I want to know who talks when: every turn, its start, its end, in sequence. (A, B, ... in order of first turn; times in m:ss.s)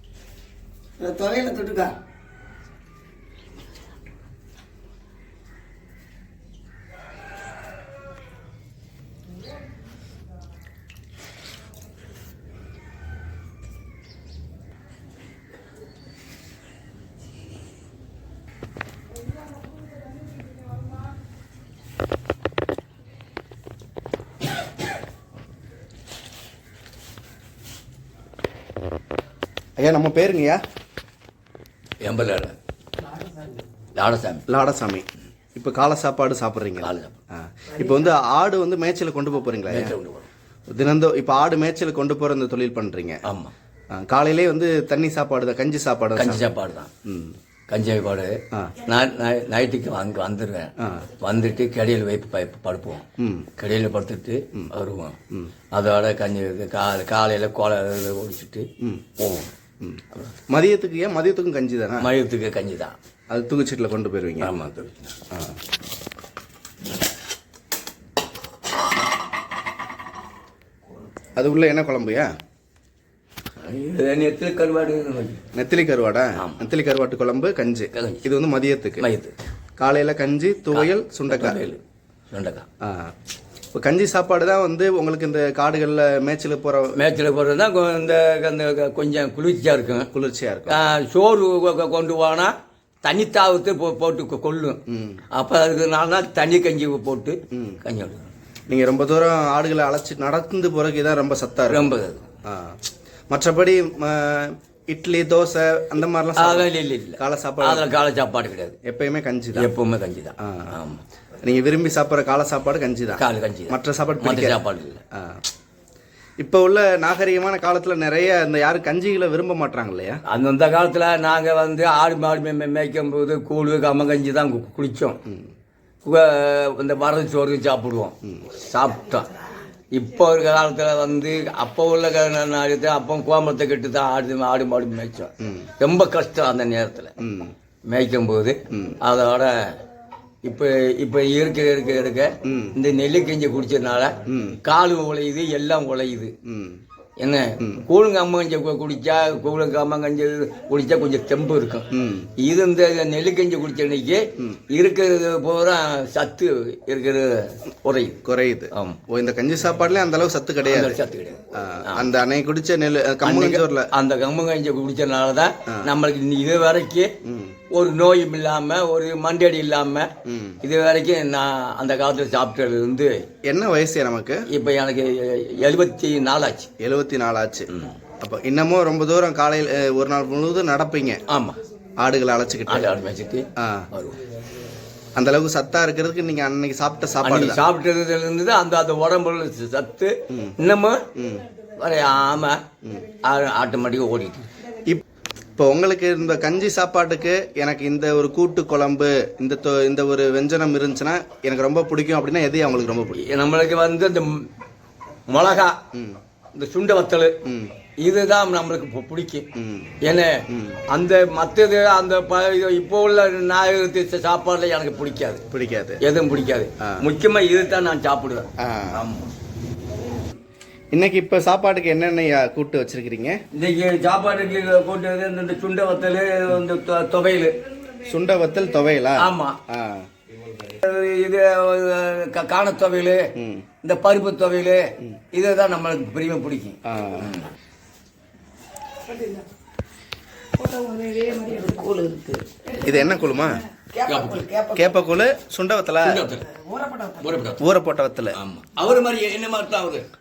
0:01.0-0:01.9 A
0:29.8-0:30.6 B
0:32.0-0:32.6 C
0:34.0-0:34.4 C
0:34.5-0:39.9 B
0:36.8-0:37.2 C
0:39.7-0:40.3 C
0:40.7-0:43.2 B
0:43.2-0:43.5 C
0:43.9-0:46.4 B
0:46.2-0:46.9 C
0:47.0-0:47.3 B
0:47.7-0:53.0 C
0:50.8-0:51.1 B
0:53.2-0:53.5 B
0:53.6-0:55.2 C
0:55.7-0:58.7 C
0:58.8-1:02.1 B
1:02.0-1:02.9 C
1:03.3-1:04.5 B
1:04.4-1:05.1 C
1:11.4-1:12.3 B
1:13.6-1:15.4 C
1:15.5-1:19.0 B
1:16.4-1:16.7 C
1:17.9-1:18.2 C
1:19.0-1:19.3 C
1:19.8-1:21.6 B
1:20.7-1:22.6 C
1:22.8-1:23.1 B
1:23.7-1:27.0 B
1:27.0-1:30.1 C
1:30.1-1:30.8 B
1:30.7-1:32.5 C
1:33.0-1:34.8 C
1:34.9-1:35.2 B
1:35.3-1:38.3 C
1:37.5-1:37.8 B
1:38.7-1:42.8 B
1:41.7-1:42.2 C
1:43.3-1:47.9 B
1:46.4-1:48.8 C
1:48.8-1:49.7 B
1:49.5-1:51.0 C
1:50.4-1:50.7 B
1:51.4-1:54.6 B
1:53.2-1:55.0 C
1:55.1-1:55.4 B
1:56.4-2:00.2 B
2:00.3-2:05.2 C
2:06.0-2:09.3 C
2:09.9-2:17.1 C
2:15.4-2:15.7 B
2:17.2-2:17.5 B
2:17.9-2:19.8 C
2:18.7-2:19.0 B
2:20.4-2:26.3 C
2:22.4-2:22.8 B
2:24.3-2:24.6 B
2:26.4-2:26.8 B
2:27.2-2:38.2 C
2:27.6-2:27.8 B
2:31.9-2:32.3 B
2:38.2-2:41.0 B
2:38.7-2:39.0 C
2:40.7-2:42.1 C
2:41.5-2:43.9 B
2:43.2-2:47.1 C
2:47.2-2:47.6 B
2:47.7-2:50.1 C
2:50.2-2:50.6 B
2:50.6-2:53.2 C
2:53.4-2:54.4 B
2:54.5-2:56.7 C
2:56.8-3:01.2 B
3:01.3-3:01.6 C
3:02.0-3:02.9 B
3:02.7-3:04.2 C
3:03.6-3:03.9 B
3:05.2-3:07.6 B
3:07.2-3:11.0 C
3:11.1-3:11.4 B
3:11.8-3:12.6 C
3:12.8-3:13.1 B
3:13.2-3:14.5 C
3:15.6-3:23.2 B
3:23.2-3:24.4 C
3:25.3-3:25.8 C
3:25.9-3:26.2 B
3:26.5-3:27.3 C
3:27.4-3:27.7 B
3:28.0-3:29.4 C
3:29.5-3:30.0 B
3:30.0-3:35.4 C
3:30.5-3:30.8 B
3:35.5-3:36.0 B
3:36.0-3:39.3 C
3:36.8-3:37.0 B
3:38.6-3:39.0 B
3:40.9-3:43.4 B
3:43.5-3:47.6 C
3:48.0-3:50.1 B
3:49.2-3:49.6 C
3:50.6-3:53.3 C
3:53.4-3:53.6 B
3:53.8-3:57.5 C
3:56.8-3:57.3 B
3:59.0-3:59.4 A
4:00.6-4:03.1 A
4:02.8-4:03.6 B
4:03.9-4:05.0 A
4:04.1-4:04.4 C
4:04.8-4:06.2 B
4:06.0-4:06.4 C
4:06.4-4:07.5 A
4:07.2-4:07.6 C
4:07.6-4:08.4 B
4:08.3-4:10.0 C